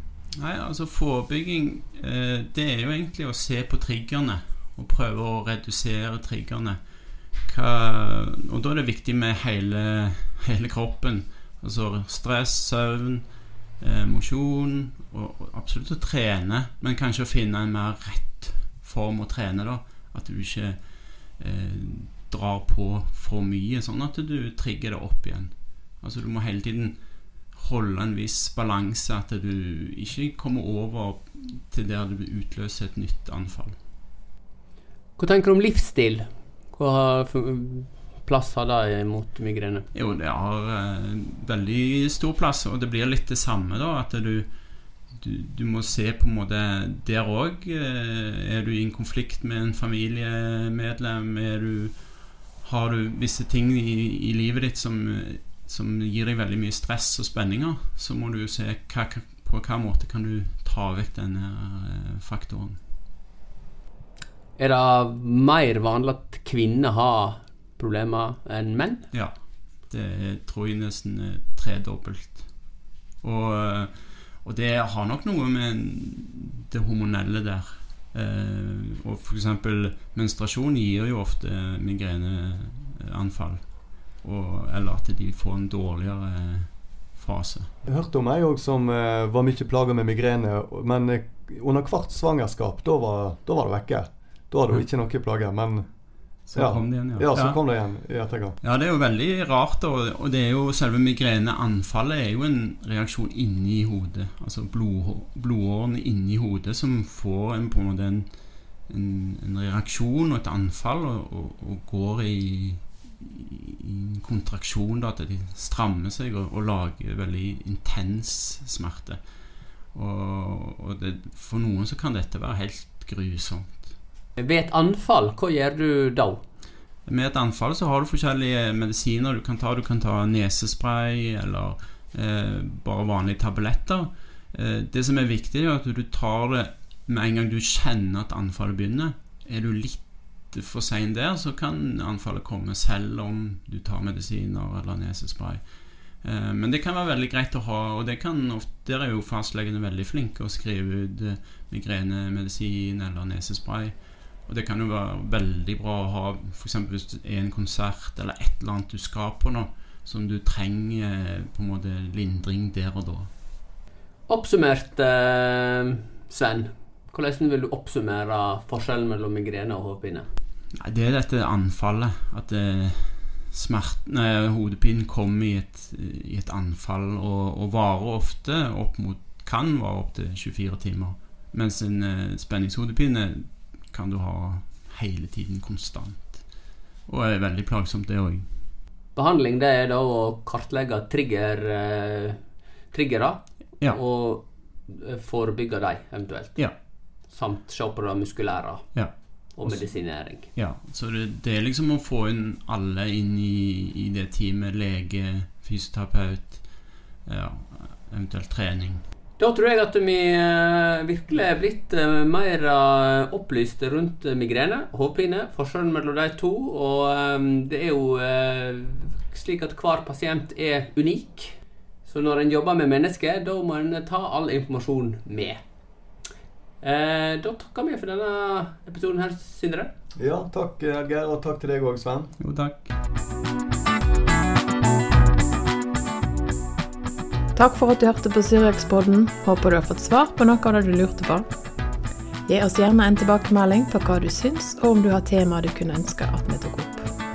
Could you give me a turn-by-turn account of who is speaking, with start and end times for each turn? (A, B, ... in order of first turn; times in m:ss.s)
0:00.4-0:06.8 A
0:07.4-0:27.0 A
0:27.5-0:33.8 A
0:35.2-0:39.8 B
0:39.9-0:44.5 A
0:45.1-1:02.8 A
1:04.6-1:09.0 B
1:09.1-1:27.7 A
1:27.9-1:35.9 C
1:36.5-1:37.6 A
1:36.6-1:38.6 C
1:38.6-1:48.3 A
1:48.9-1:59.2 A
1:59.9-2:03.9 A
2:04.4-2:06.4 B
2:07.1-2:43.3 A
2:44.3-2:50.3 B
2:50.7-3:06.5 A
3:07.1-3:08.5 A
3:09.2-3:12.4 B
3:12.9-3:16.6 B
3:17.3-3:18.9 B
3:19.6-3:20.5 B
3:19.6-3:29.0 A
3:29.4-3:41.5 B
3:42.0-3:45.6 B
3:46.8-3:49.9 B
3:50.2-3:52.3 C
3:52.4-3:52.9 A
3:57.6-4:01.5 D
4:02.5-4:07.0 D